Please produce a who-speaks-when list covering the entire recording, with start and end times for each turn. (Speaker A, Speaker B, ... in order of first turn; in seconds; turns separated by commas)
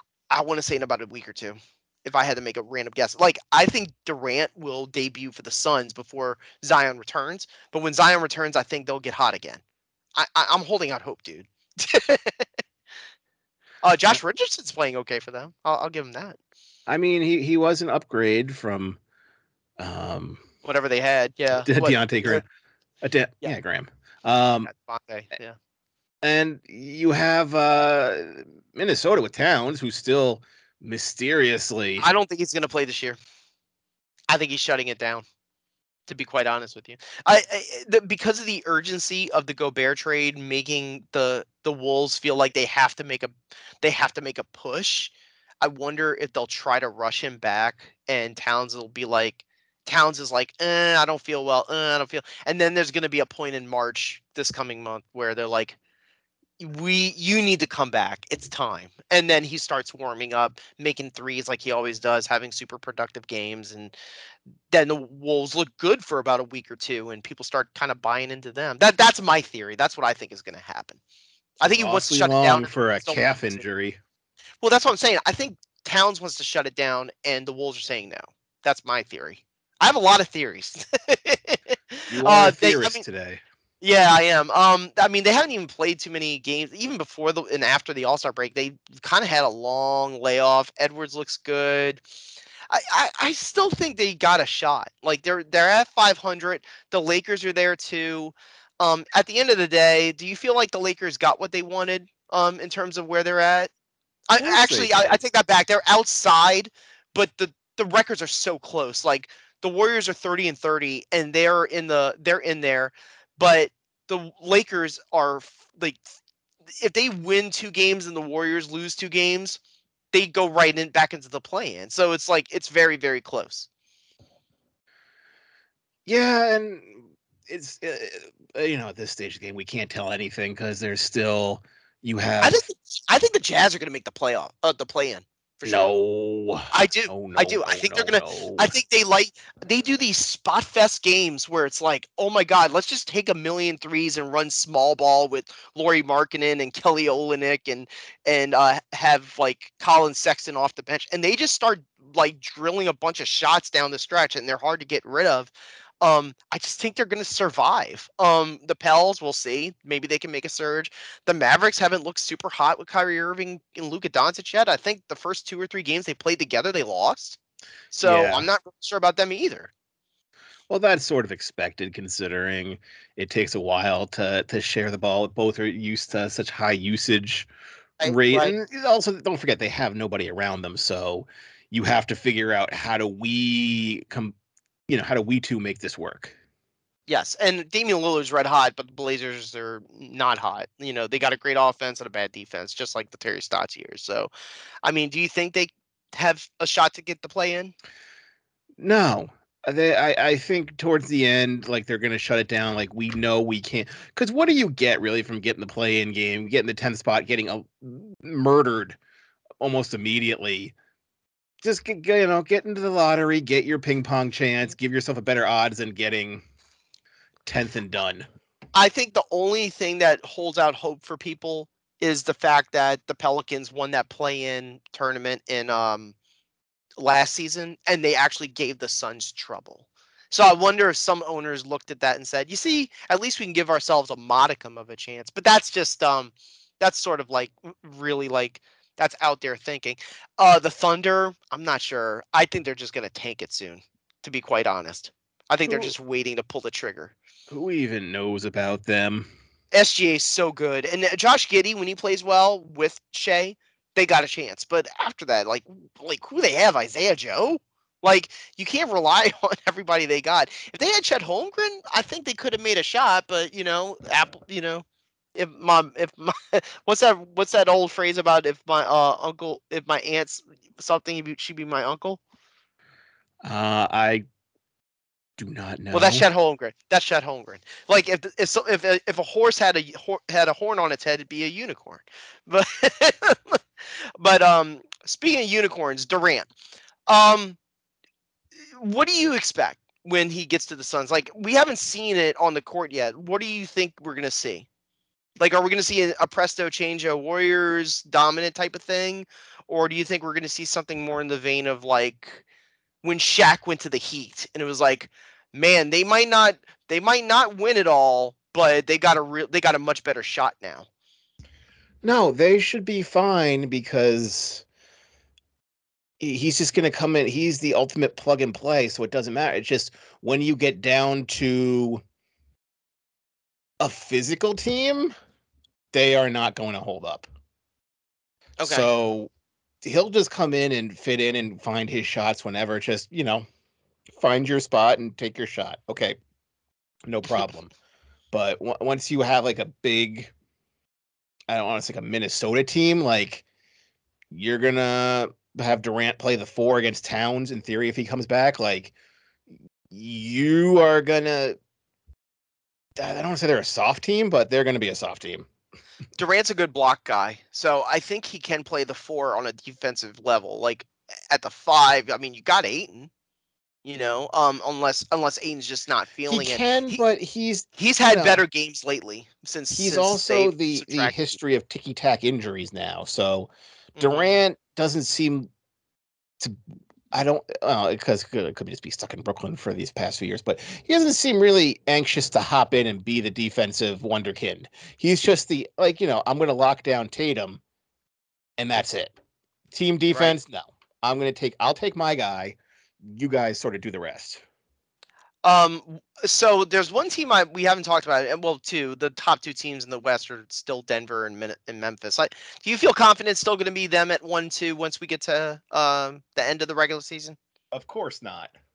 Speaker A: 0.3-9.6, Speaker A: 10.2-12.5, Speaker A: 13.8-16.4, Speaker B: 16.9-19.0, Speaker B: 19.8-20.4, Speaker A: 20.6-22.4, Speaker B: 21.6-22.4, Speaker B: 23.0-24.7, Speaker A: 24.6-25.6, Speaker B: 26.2-32.1, Speaker A: 32.0-33.2, Speaker A: 34.3-35.2, Speaker A: 36.1-55.8, Speaker A: 56.6-63.9, Speaker A: 64.7-71.0, Speaker A: 71.6-73.6, Speaker B: 71.8-74.0, Speaker A: 74.6-83.0, Speaker B: 82.1-83.4, Speaker A: 83.8-92.0, Speaker A: 92.7-103.7, Speaker A: 104.3-116.0, Speaker B: 104.4-105.2, Speaker A: 116.8-119.6, Speaker A: 120.1-123.7, Speaker B: 126.1-132.6, Speaker A: 132.4-135.9, Speaker B: 135.7-138.8, Speaker A: 136.7-155.5, Speaker A: 156.0-167.4, Speaker A: 167.9-169.7, Speaker B: 168.0-168.5, Speaker B: 170.7-177.5, Speaker A: 178.0-178.5, Speaker B: 178.0-184.3, Speaker B: 184.9-186.3, Speaker A: 187.1-194.3, Speaker A: 194.8-197.7, Speaker B: 198.8-209.0, Speaker B: 209.6-210.8, Speaker B: 211.6-216.4, Speaker B: 217.4-218.3, Speaker A: 218.8-226.1, Speaker A: 227.0-247.1, Speaker B: 245.7-245.9, Speaker B: 247.5-249.3, Speaker A: 249.7-264.8, Speaker A: 265.4-272.2, Speaker B: 273.4-274.2, Speaker B: 275.4-276.3, Speaker A: 275.9-283.6, Speaker A: 284.2-286.5, Speaker A: 287.1-287.6, Speaker A: 288.8-294.7, Speaker A: 295.4-302.4, Speaker A: 303.0-310.9, Speaker B: 312.0-314.6, Speaker B: 316.2-322.0, Speaker B: 323.8-325.1, Speaker B: 325.9-327.3, Speaker A: 328.6-328.9, Speaker B: 328.6-329.3, Speaker B: 329.8-333.5, Speaker B: 334.1-336.2, Speaker B: 337.1-337.7, Speaker B: 338.3-340.3, Speaker B: 341.5-343.4, Speaker B: 344.3-348.9, Speaker B: 349.9-351.6, Speaker B: 353.0-355.5, Speaker A: 356.2-363.1, Speaker A: 363.9-367.0, Speaker B: 366.3-368.4, Speaker A: 367.8-371.2, Speaker B: 369.8-375.5, Speaker A: 374.0-374.4, Speaker B: 377.1-387.6, Speaker B: 388.6-389.2, Speaker B: 389.7-394.4, Speaker A: 395.4-407.4, Speaker B: 407.7-408.5